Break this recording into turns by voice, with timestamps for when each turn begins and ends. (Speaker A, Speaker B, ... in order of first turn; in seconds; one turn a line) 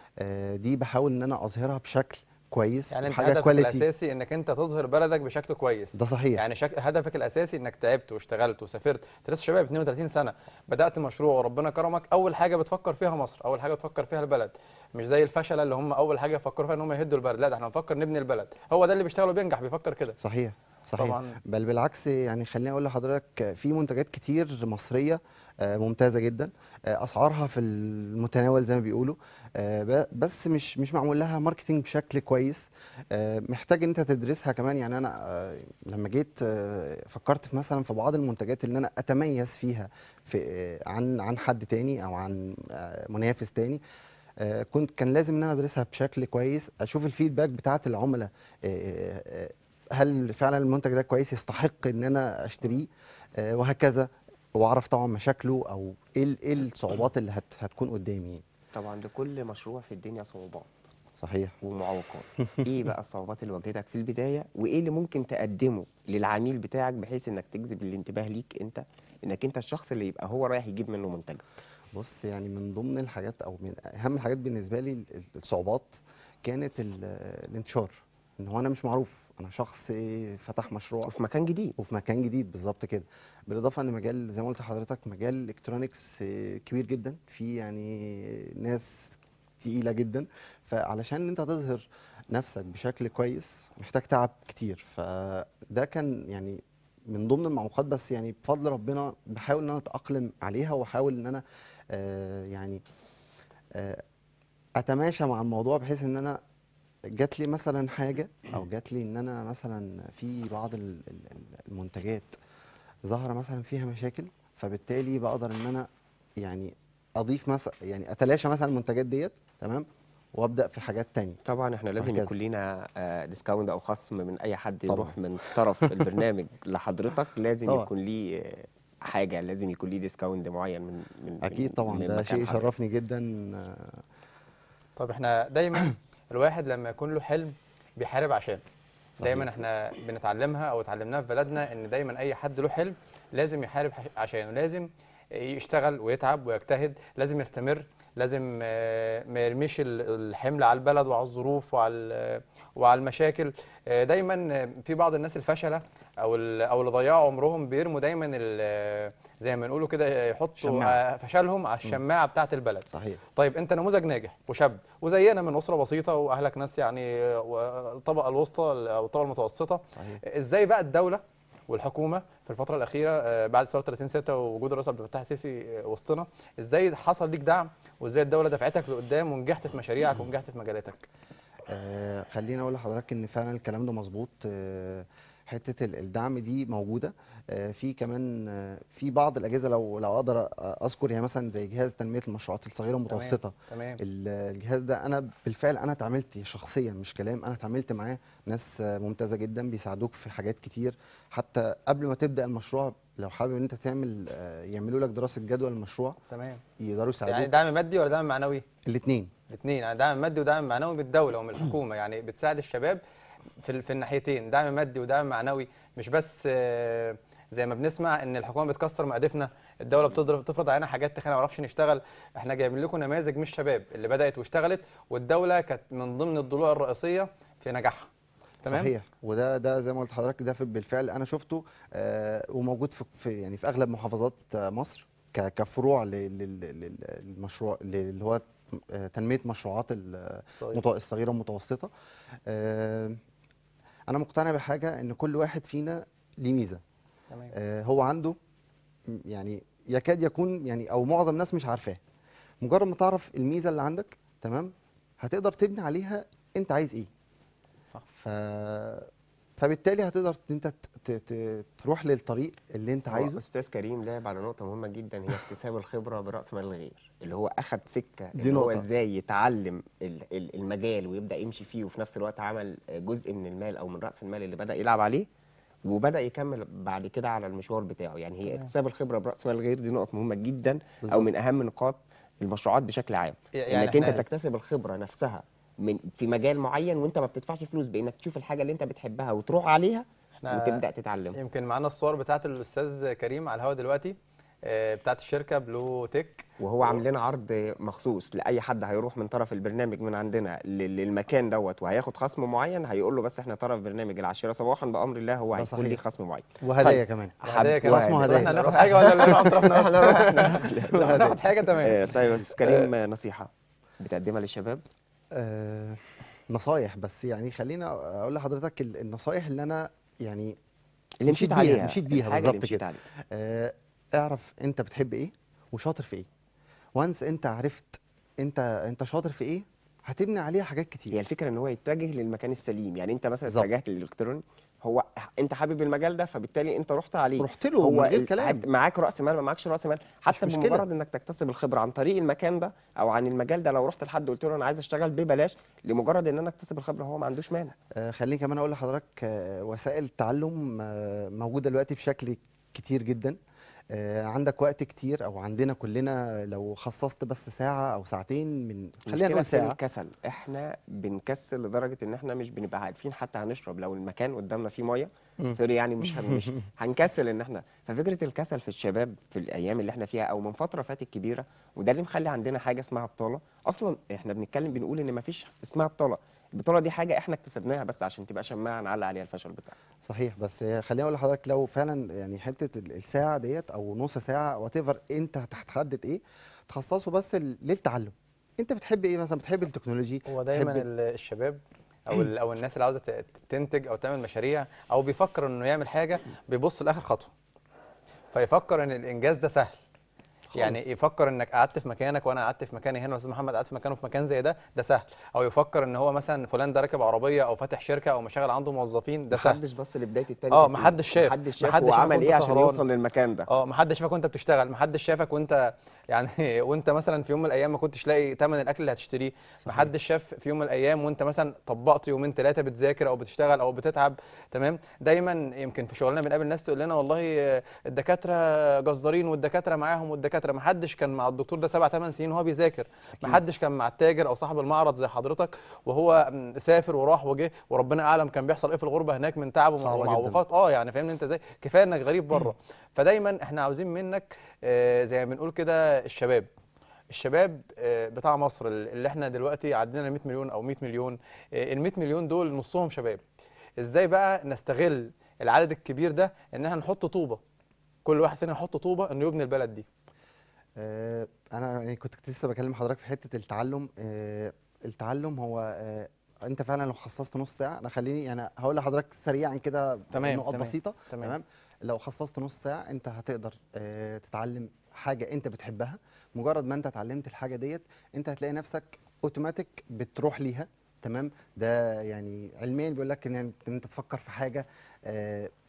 Speaker A: 0.2-3.9
Speaker B: 2.9-20.2
Speaker A: 6.0-6.4
Speaker A: 20.2-43.8
Speaker B: 21.0-21.4
Speaker A: 44.4-58.4
Speaker C: 58.7-60.7
Speaker A: 61.2-61.5
Speaker C: 61.6-71.4
Speaker A: 71.9-81.1
Speaker C: 81.1-81.8
Speaker A: 81.8-102.8
Speaker A: 103.7-104.0
Speaker A: 104.8-106.4
Speaker A: 107.1-112.3
Speaker A: 113.0-115.9
Speaker A: 116.4-121.4
Speaker C: 121.4-132.7
Speaker A: 122.0-122.3
Speaker A: 124.9-125.2
Speaker A: 125.8-126.2
Speaker A: 131.4-134.0
Speaker B: 135.0-138.6
Speaker A: 139.2-139.5
Speaker B: 139.2-181.0
Speaker A: 160.6-161.0
Speaker A: 162.9-163.2
Speaker A: 169.9-170.2
Speaker A: 181.7-206.2
Speaker B: 193.1-194.0
Speaker B: 206.3-206.6
Speaker A: 206.8-207.5
Speaker B: 207.3-208.6
Speaker A: 208.8-209.3
Speaker B: 209.5-213.0
Speaker B: 213.6-228.1
Speaker B: 228.6-228.9
Speaker A: 228.7-241.9
Speaker B: 240.5-240.8
Speaker A: 242.5-243.2
Speaker A: 244.1-246.8
Speaker A: 247.5-248.3
Speaker A: 249.1-252.0
Speaker A: 252.6-257.1
Speaker A: 258.1-263.4
Speaker C: 263.1-275.3
Speaker A: 268.3-268.9
Speaker C: 275.8-291.4
Speaker A: 281.0-281.3
Speaker B: 283.5-284.2
Speaker B: 290.4-290.8
Speaker B: 291.4-297.0
Speaker C: 296.6-306.5
Speaker A: 305.6-306.0
Speaker A: 306.6-309.6
Speaker B: 306.8-312.9
Speaker C: 307.4-314.8
Speaker A: 310.4-311.4
Speaker A: 315.3-320.6
Speaker C: 321.2-323.0
Speaker A: 321.2-326.3
Speaker A: 326.9-331.2
Speaker C: 331.1-347.7
Speaker A: 337.4-338.6
Speaker A: 340.3-340.9
Speaker A: 348.0-353.4
Speaker A: 353.9-359.8
Speaker C: 359.1-379.7
Speaker A: 366.1-366.5
Speaker A: 380.0-390.9
Speaker B: 390.3-397.3
Speaker B: 398.3-399.8
Speaker A: 400.5-400.8
Speaker B: 400.5-409.6
Speaker C: 409.3-413.5
Speaker B: 410.5-412.8
Speaker B: 413.5-446.5
Speaker A: 419.6-419.9
Speaker A: 439.8-440.4
Speaker B: 447.1-453.2
Speaker B: 453.8-457.4
Speaker B: 458.0-459.9
Speaker A: 460.8-485.5
Speaker B: 470.1-471.4